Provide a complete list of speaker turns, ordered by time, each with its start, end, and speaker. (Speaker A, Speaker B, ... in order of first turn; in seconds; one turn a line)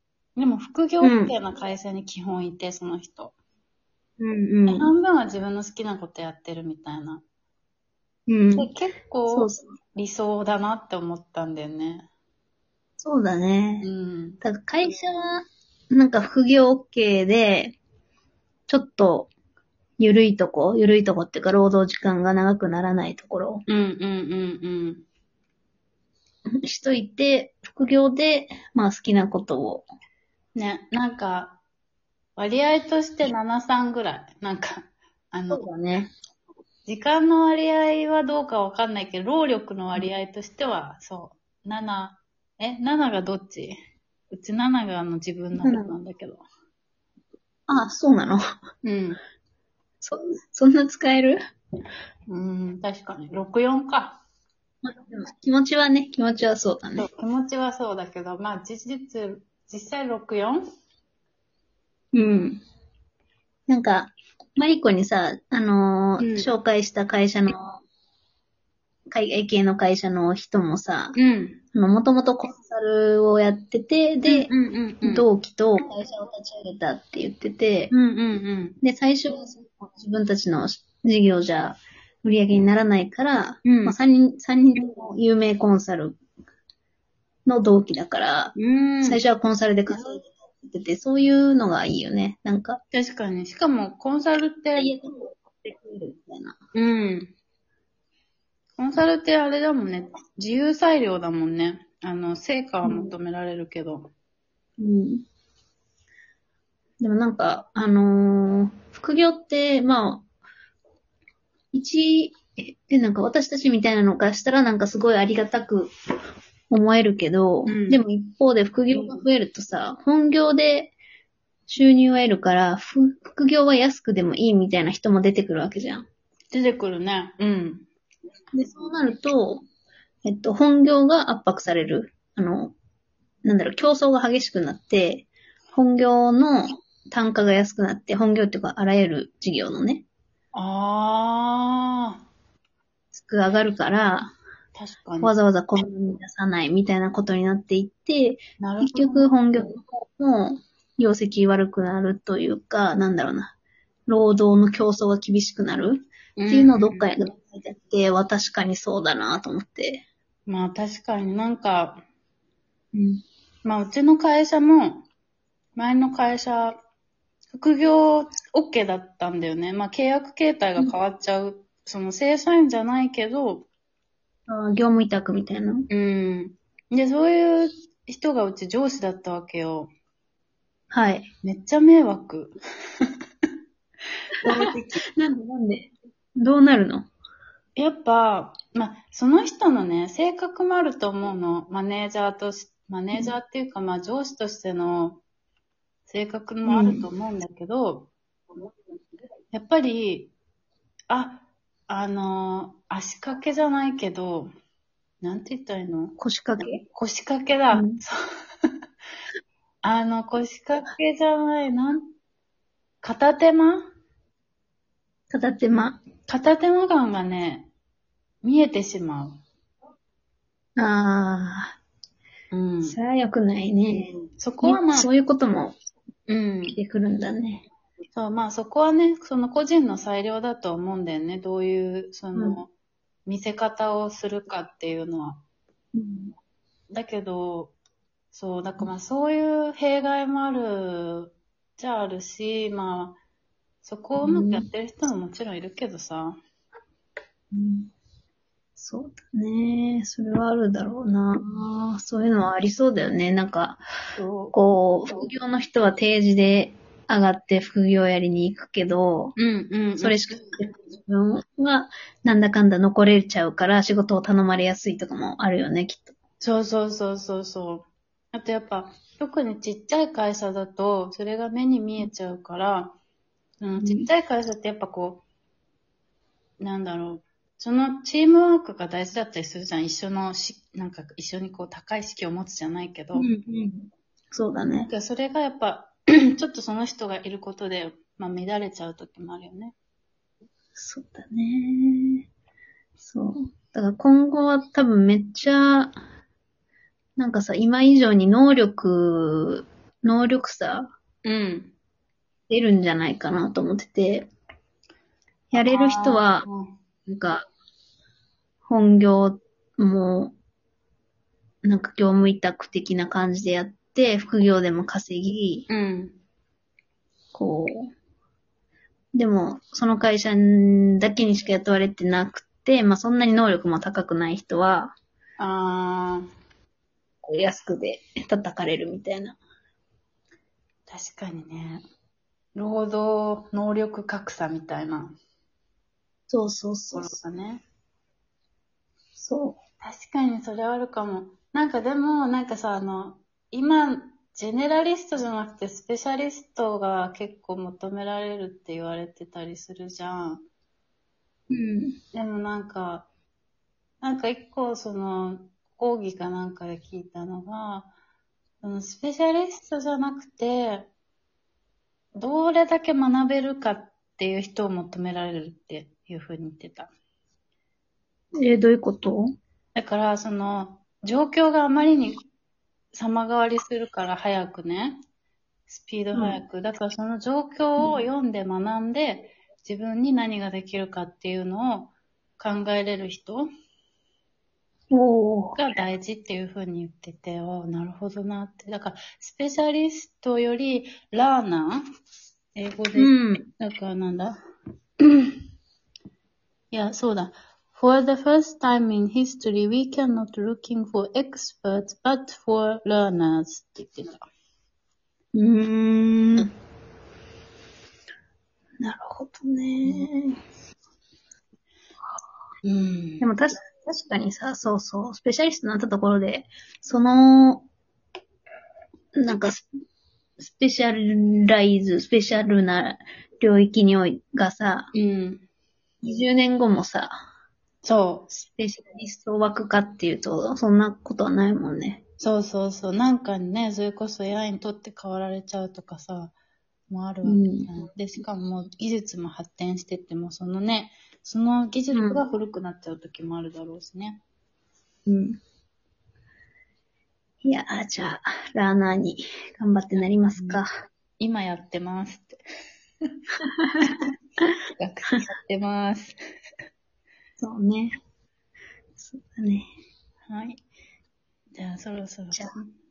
Speaker A: 0.4-3.4
Speaker B: 1.0-1.3
Speaker B: 4.2-4.9
Speaker A: 4.7-7.2
Speaker B: 8.3-8.7
Speaker A: 8.6-12.1
Speaker B: 9.3-9.7
Speaker B: 13.0-13.9
Speaker A: 13.8-14.4
Speaker B: 14.4-17.8
Speaker B: 18.7-19.3
Speaker B: 20.0-23.6
Speaker A: 23.7-25.0
Speaker B: 26.6-29.9
Speaker A: 30.6-31.6
Speaker A: 32.4-35.7
Speaker B: 35.5-36.1
Speaker A: 36.9-43.8
Speaker A: 44.3-46.5
Speaker B: 45.6-46.0
Speaker B: 47.7-48.4
Speaker A: 48.8-49.2
Speaker B: 50.0-51.4
Speaker A: 52.3-54.2
Speaker B: 54.8-57.1
Speaker A: 57.0-60.6
Speaker B: 62.1-62.6
Speaker B: 63.7-67.8
Speaker A: 66.2-66.5
Speaker B: 69.1-71.2
Speaker A: 71.2-71.6
Speaker B: 71.7-74.5
Speaker A: 74.3-75.3
Speaker B: 75.0-77.9
Speaker A: 77.9-78.8
Speaker B: 78.8-86.2
Speaker A: 83.6-84.0
Speaker B: 87.5-92.8
Speaker A: 88.6-89.2
Speaker A: 92.9-94.9
Speaker B: 94.8-96.6
Speaker A: 96.7-97.3
Speaker A: 98.8-104.1
Speaker B: 102.8-103.1
Speaker B: 104.8-105.2
Speaker B: 107.0-110.2
Speaker B: 111.7-115.9
Speaker B: 116.7-120.9
Speaker A: 117.7-118.0
Speaker B: 121.7-126.1
Speaker A: 126.5-127.9
Speaker B: 128.5-129.7
Speaker B: 130.2-132.8
Speaker B: 133.4-140.1
Speaker A: 140.5-142.2
Speaker B: 143.1-144.3
Speaker A: 144.8-145.3
Speaker B: 145.2-153.5
Speaker A: 148.6-149.3
Speaker B: 154.1-160.1
Speaker A: 156.4-157.1
Speaker A: 160.5-162.0
Speaker B: 162.9-163.2
Speaker A: 163.6-165.1
Speaker A: 165.8-166.8
Speaker A: 167.5-173.7
Speaker B: 174.5-175.9
Speaker A: 175.9-179.9
Speaker B: 180.9-181.3
Speaker A: 181.4-183.1
Speaker A: 184.4-185.0
Speaker B: 184.4-187.1
Speaker A: 187.8-195.2
Speaker A: 196.1-198.1
Speaker B: 196.7-197.1
Speaker A: 199.5-200.3
Speaker A: 201.1-204.5
Speaker A: 205.2-206.2
Speaker B: 206.2-206.8
Speaker A: 206.9-208.2
Speaker B: 207.7-208.0
Speaker A: 209.8-212.1
Speaker A: 213.0-213.9
Speaker B: 215.3-216.0
Speaker A: 216.3-217.7
Speaker A: 218.4-219.4
Speaker B: 220.8-221.8
Speaker A: 222.5-223.0
Speaker B: 222.8-225.8
Speaker A: 224.4-225.1
Speaker A: 226.3-226.8
Speaker B: 226.7-227.7
Speaker A: 228.1-232.7
Speaker B: 232.4-232.6
Speaker A: 233.3-235.4
Speaker B: 235.9-236.3
Speaker A: 236.9-237.8
Speaker A: 238.3-243.2
Speaker A: 243.8-246.4
Speaker B: 244.2-244.7
Speaker B: 247.5-247.9
Speaker B: 248.8-253.8
Speaker A: 254.2-254.5
Speaker B: 254.5-259.4
Speaker A: 259.4-260.2
Speaker B: 260.0-266.1
Speaker A: 266.4-273.0
Speaker A: 273.6-275.2
Speaker B: 273.8-274.1
Speaker A: 276.6-283.3
Speaker B: 283.1-284.9
Speaker A: 284.9-289.8
Speaker B: 290.8-292.3
Speaker B: 293.0-296.0
Speaker B: 297.2-300.9
Speaker A: 301.2-301.7
Speaker B: 302.5-304.3
Speaker B: 305.5-306.5
Speaker A: 305.5-306.7
Speaker B: 307.1-307.4
Speaker B: 308.7-310.4
Speaker B: 311.6-315.7
Speaker A: 315.7-316.2
Speaker B: 317.3-317.9
Speaker B: 319.1-324.9
Speaker A: 325.4-326.3
Speaker B: 327.2-329.4
Speaker A: 330.9-331.8
Speaker A: 332.6-335.1
Speaker B: 336.3-337.2
Speaker A: 336.9-337.6
Speaker B: 339.2-339.6
Speaker A: 339.8-350.4
Speaker B: 351.5-352.0
Speaker A: 352.1-353.1
Speaker A: 354.0-357.9
Speaker A: 358.6-360.9
Speaker A: 362.1-366.9
Speaker B: 368.4-369.3
Speaker A: 369.8-372.2
Speaker A: 372.9-375.0
Speaker A: 375.7-383.5
Speaker B: 384.9-385.6
Speaker A: 385.6-391.8
Speaker A: 392.6-394.4
Speaker B: 392.9-393.5
Speaker A: 396.7-404.2
Speaker B: 405.3-406.5
Speaker B: 408.8-410.4
Speaker A: 412.6-413.3
Speaker B: 413.2-417.7
Speaker B: 419.1-419.6
Speaker B: 420.4-424.9
Speaker A: 424.9-425.4
Speaker B: 426.0-427.1
Speaker A: 427.8-428.4
Speaker B: 428.4-432.0
Speaker A: 432.2-436.3
Speaker A: 436.9-444.2
Speaker B: 437.2-437.7
Speaker B: 441.9-442.2
Speaker B: 445.1-445.4
Speaker B: 447.4-450.7
Speaker A: 450.4-450.6
Speaker A: 451.2-452.4
Speaker B: 453.6-454.5
Speaker A: 454.7-456.2
Speaker B: 457.4-458.0
Speaker B: 459.0-459.7
Speaker A: 460.2-460.6
Speaker A: 461.6-462.7